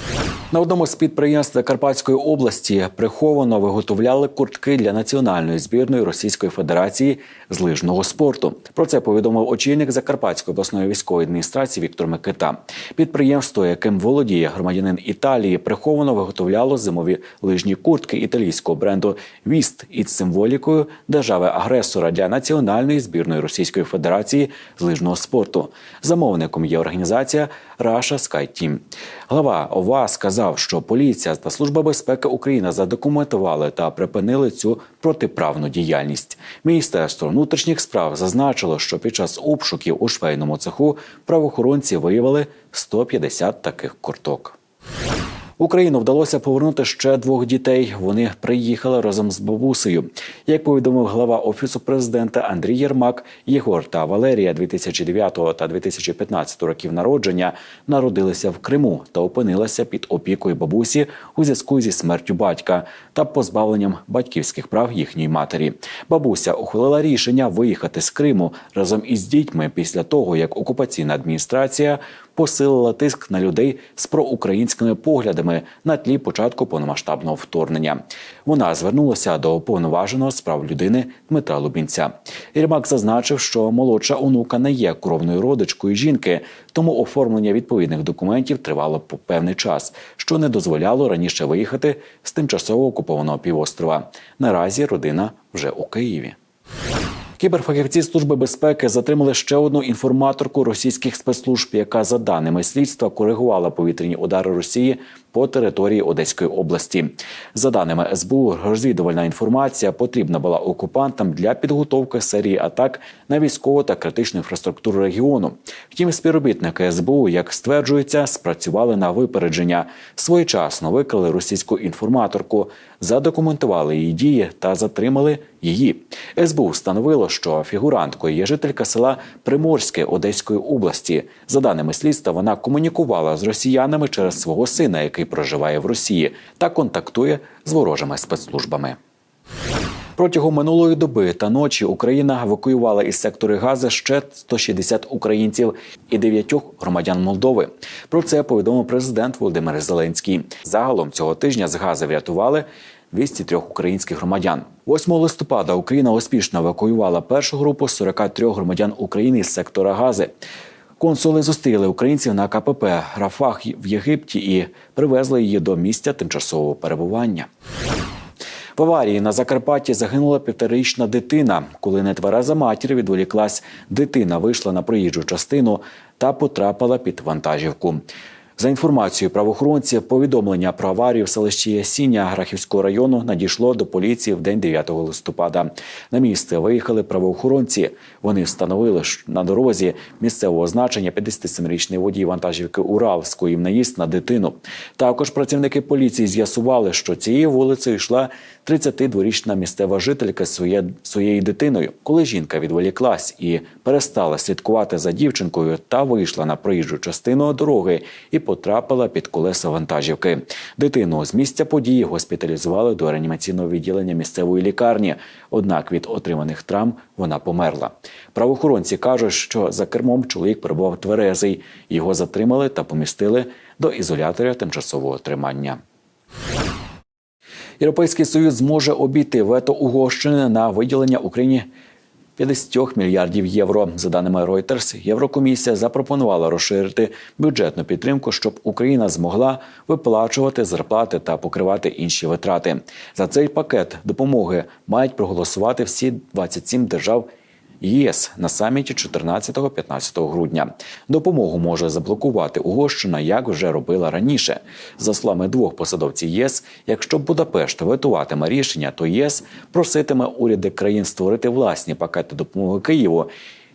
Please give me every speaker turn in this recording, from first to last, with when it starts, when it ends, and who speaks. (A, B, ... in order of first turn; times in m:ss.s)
0:00.5-0:44.6 A
0:45.6-1:36.4 A
1:37.4-2:19.0 A
2:20.2-2:40.3 A
2:41.0-2:47.5 A
2:48.8-2:58.0 A
2:58.6-3:45.8 A
3:47.8-3:51.6 A
3:52.4-4:07.3 A
4:07.8-4:23.3 A